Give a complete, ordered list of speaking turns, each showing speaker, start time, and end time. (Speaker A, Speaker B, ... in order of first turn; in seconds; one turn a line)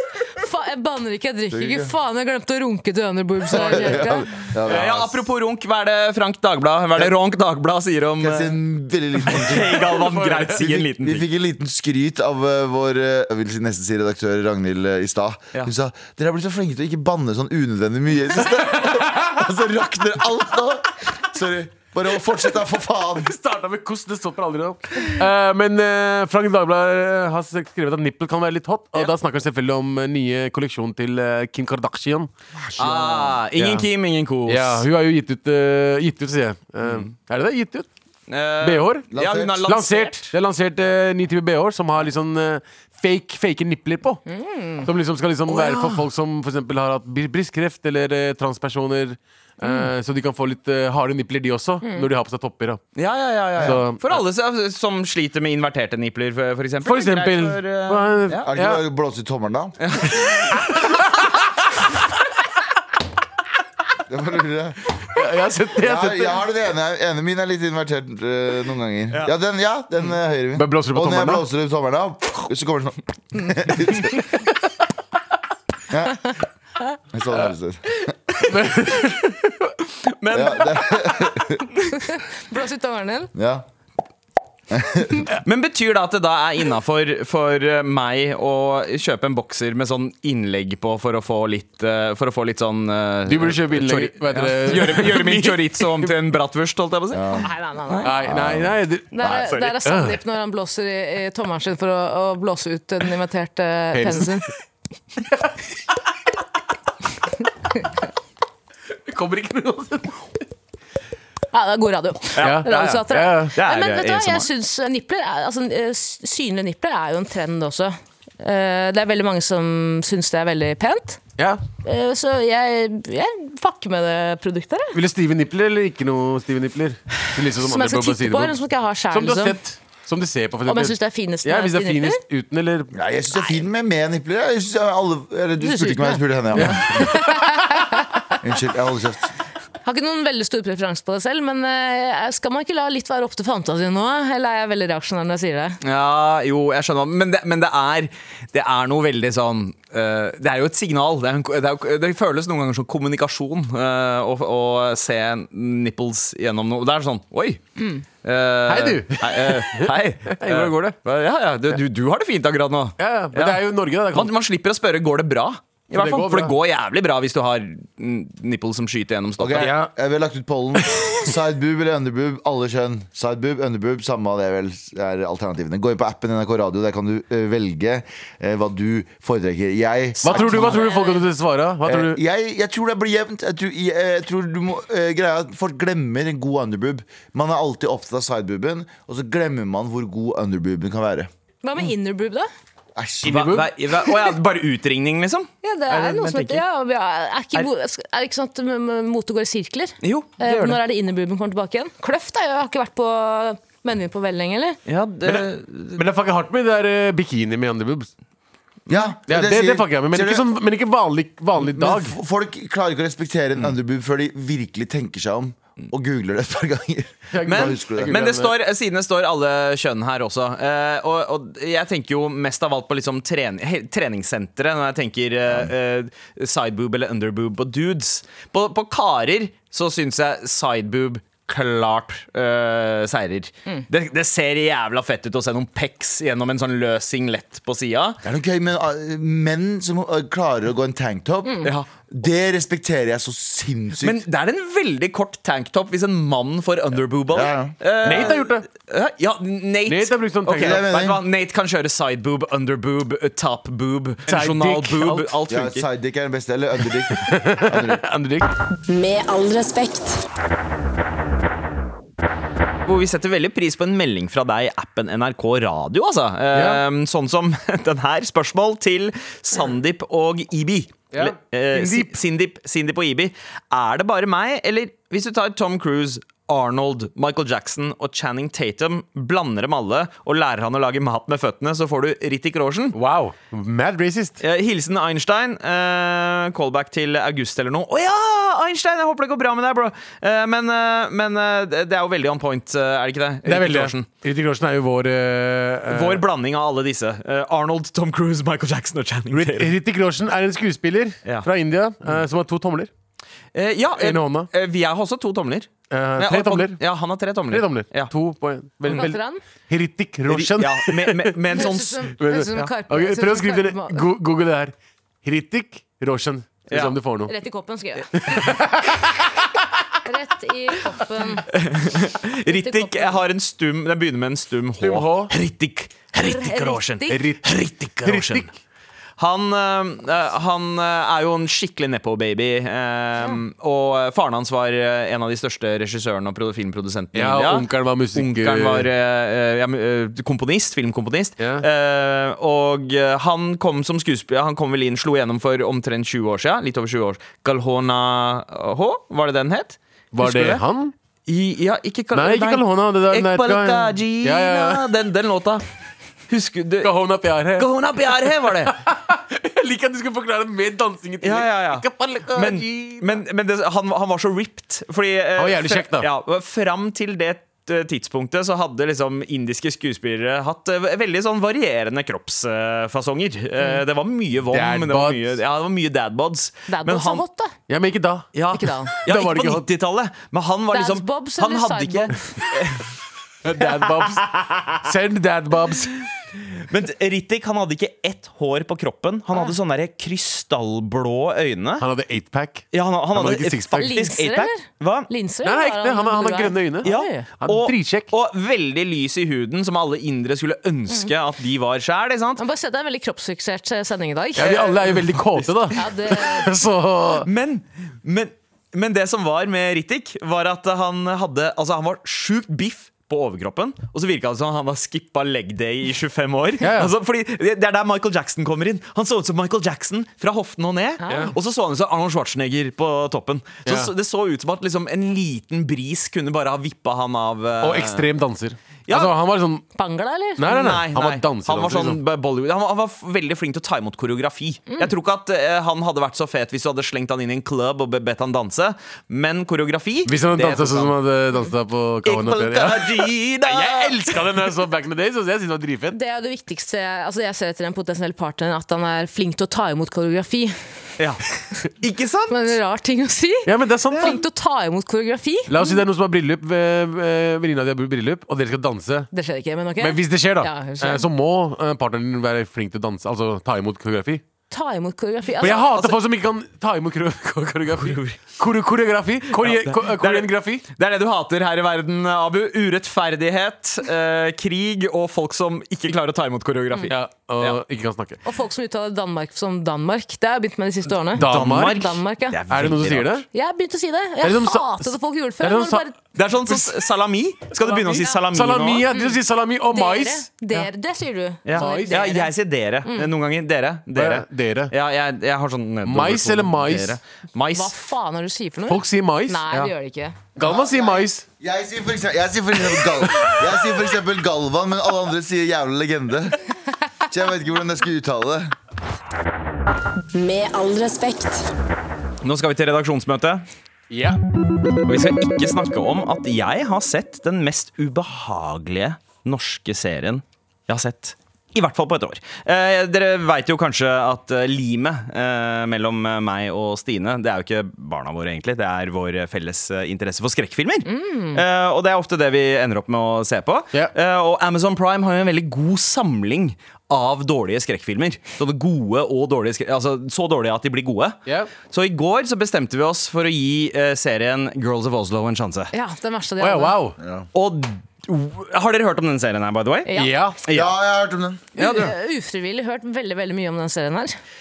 Speaker A: 0.3-4.3
Speaker B: 1.5-1.9
Speaker B: 3.5-5.2
Speaker C: 4.7-8.6
Speaker B: 8.2-10.0
Speaker C: 9.3-11.3
Speaker D: 9.9-10.5
Speaker B: 10.6-23.3
Speaker D: 23.2-33.9
Speaker B: 32.8-33.2
Speaker C: 32.8-34.9
Speaker D: 34.5-37.9
Speaker C: 38.3-40.3
Speaker D: 38.6-39.1
Speaker B: 39.1-39.6
Speaker D: 39.6-44.2
Speaker A: 44.3-44.9
Speaker D: 44.9-52.8
Speaker C: 45.5-46.0
Speaker A: 51.8-52.1
Speaker C: 53.0-58.5
Speaker D: 53.6-54.1
Speaker D: 56.8-58.8
Speaker B: 58.5-59.8
Speaker C: 59.8-60.7
Speaker B: 64.1-64.8
Speaker D: 65.1-66.4
Speaker B: 65.8-74.3
Speaker D: 70.5-71.5
Speaker B: 75.9-76.3
Speaker B: 77.1-78.1
Speaker D: 78.5-79.3
Speaker C: 80.1-81.3
Speaker B: 80.3-81.7
Speaker A: 82.0-83.3
Speaker B: 83.3-83.7
Speaker B: 84.7-85.3
Speaker C: 85.4-97.4
Speaker D: 93.3-96.1
Speaker B: 97.1-97.5
Speaker A: 97.4-98.1
Speaker D: 98.0-99.3
Speaker B: 98.2-98.7
Speaker A: 99.1-104.5
Speaker C: 99.2-99.8
Speaker D: 99.8-100.2
Speaker D: 103.9-104.4
Speaker D: 109.1-110.2
Speaker A: 111.5-121.2
Speaker C: 112.4-114.5
Speaker D: 112.4-113.5
Speaker A: 121.8-125.0
Speaker D: 124.9-128.6
Speaker A: 127.6-129.6
Speaker D: 129.1-132.9
Speaker A: 130.7-132.2
Speaker B: 132.9-137.1
Speaker A: 135.6-138.2
Speaker D: 136.6-137.4
Speaker B: 138.4-139.3
Speaker A: 139.8-145.8
Speaker C: 145.8-157.6
Speaker A: 157.8-158.0
Speaker C: 158.2-169.8
Speaker D: 158.7-161.0
Speaker D: 163.0-164.3
Speaker D: 165.9-166.6
Speaker B: 169.4-180.8
Speaker D: 169.5-169.9
Speaker D: 180.2-182.2
Speaker A: 180.3-181.3
Speaker B: 181.8-191.3
Speaker A: 191.6-192.5
Speaker B: 193.0-193.5
Speaker D: 193.2-193.7
Speaker C: 193.2-196.6
Speaker A: 195.6-204.8
Speaker C: 200.0-200.8
Speaker C: 204.9-206.0
Speaker D: 205.2-208.1
Speaker B: 208.9-210.5
Speaker D: 209.3-212.2
Speaker B: 211.6-218.2
Speaker D: 217.3-218.5
Speaker C: 217.4-238.2
Speaker B: 238.2-244.2
Speaker C: 241.6-241.9
Speaker C: 244.0-255.8
Speaker B: 247.3-247.8
Speaker D: 248.0-248.7
Speaker D: 249.9-250.9
Speaker B: 250.6-251.2
Speaker D: 254.3-255.4
Speaker B: 255.5-258.0
Speaker D: 257.1-258.5
Speaker E: 258.9-260.2
Speaker C: 262.9-283.0
Speaker D: 266.5-266.8
Speaker D: 271.1-272.2
Speaker D: 282.9-284.4
Speaker C: 284.4-294.1
Speaker D: 293.4-296.2
Speaker C: 295.9-299.7
Speaker D: 299.3-302.9
Speaker C: 303.6-308.1
Speaker D: 304.0-304.5
Speaker D: 305.9-306.8
Speaker D: 307.5-311.7
Speaker A: 308.9-309.4
Speaker C: 310.3-312.7
Speaker A: 311.5-314.1
Speaker D: 312.2-317.3
Speaker C: 316.7-317.0
Speaker A: 317.3-318.6
Speaker D: 318.1-319.3
Speaker A: 320.0-321.5
Speaker C: 321.5-328.5
Speaker A: 322.5-323.2
Speaker D: 324.8-325.3
Speaker A: 326.2-327.2
Speaker D: 327.1-328.5
Speaker C: 329.2-350.6
Speaker D: 337.1-338.9
Speaker D: 341.4-341.7
Speaker D: 350.1-350.9
Speaker C: 351.3-355.6
Speaker D: 352.1-354.9
Speaker C: 356.3-356.9
Speaker D: 356.8-357.7
Speaker C: 357.6-358.8
Speaker D: 358.6-363.0
Speaker C: 361.2-377.2
Speaker D: 365.4-366.1
Speaker D: 374.5-375.3
Speaker A: 376.7-377.5
Speaker D: 377.7-378.3
Speaker C: 378.4-382.8
Speaker A: 378.5-379.0
Speaker D: 379.1-379.7
Speaker A: 380.7-382.2
Speaker D: 383.4-386.1
Speaker C: 383.7-384.8
Speaker C: 386.7-391.9
Speaker D: 391.8-393.9
Speaker C: 392.7-395.1
Speaker A: 393.8-397.3
Speaker D: 395.4-398.1
Speaker C: 396.9-402.4
Speaker A: 402.4-404.7
Speaker D: 404.4-407.3
Speaker A: 405.8-406.5
Speaker C: 407.2-428.1
Speaker D: 416.6-416.9
Speaker A: 421.0-421.3
Speaker D: 423.7-423.9
Speaker D: 427.6-429.6
Speaker C: 428.9-429.1
Speaker A: 429.8-430.5
Speaker D: 430.4-432.0
Speaker C: 430.5-440.9
Speaker D: 440.1-446.0
Speaker C: 442.1-444.3
Speaker A: 445.9-450.6
Speaker C: 451.0-452.6
Speaker A: 452.3-455.8
Speaker D: 453.4-454.2
Speaker D: 455.5-459.1
Speaker A: 459.1-461.1
Speaker D: 459.8-464.2
Speaker A: 464.5-465.9
Speaker D: 465.4-470.6
Speaker C: 467.8-468.3
Speaker C: 469.4-477.6
Speaker D: 476.9-478.2
Speaker A: 478.2-482.4
Speaker D: 481.1-481.9
Speaker C: 481.2-483.2
Speaker D: 482.5-483.3
Speaker A: 483.3-485.9
Speaker D: 484.2-485.9
Speaker C: 486.2-488.9
Speaker D: 486.5-486.8
Speaker D: 487.6-490.7
Speaker A: 488.9-489.2
Speaker A: 489.7-492.3
Speaker C: 491.5-497.7
Speaker D: 491.5-492.0
Speaker D: 493.9-494.7
Speaker D: 495.8-497.0
Speaker A: 497.6-500.2
Speaker D: 498.7-499.7
Speaker D: 500.4-501.2
Speaker B: 500.4-506.4
Speaker B: 507.1-508.6
Speaker E: 510.1-511.5
Speaker C: 512.2-513.5
Speaker D: 513.9-514.2
Speaker C: 514.9-545.7
Speaker A: 530.9-531.4
Speaker D: 541.3-541.5
Speaker A: 545.7-546.8
Speaker D: 546.4-547.0
Speaker B: 547.0-547.3
Speaker C: 547.3-549.9
Speaker A: 549.9-550.2
Speaker D: 549.9-550.4
Speaker C: 550.5-550.7
Speaker B: 550.5-551.5
Speaker C: 551.6-551.9
Speaker A: 551.6-554.2
Speaker D: 551.6-551.9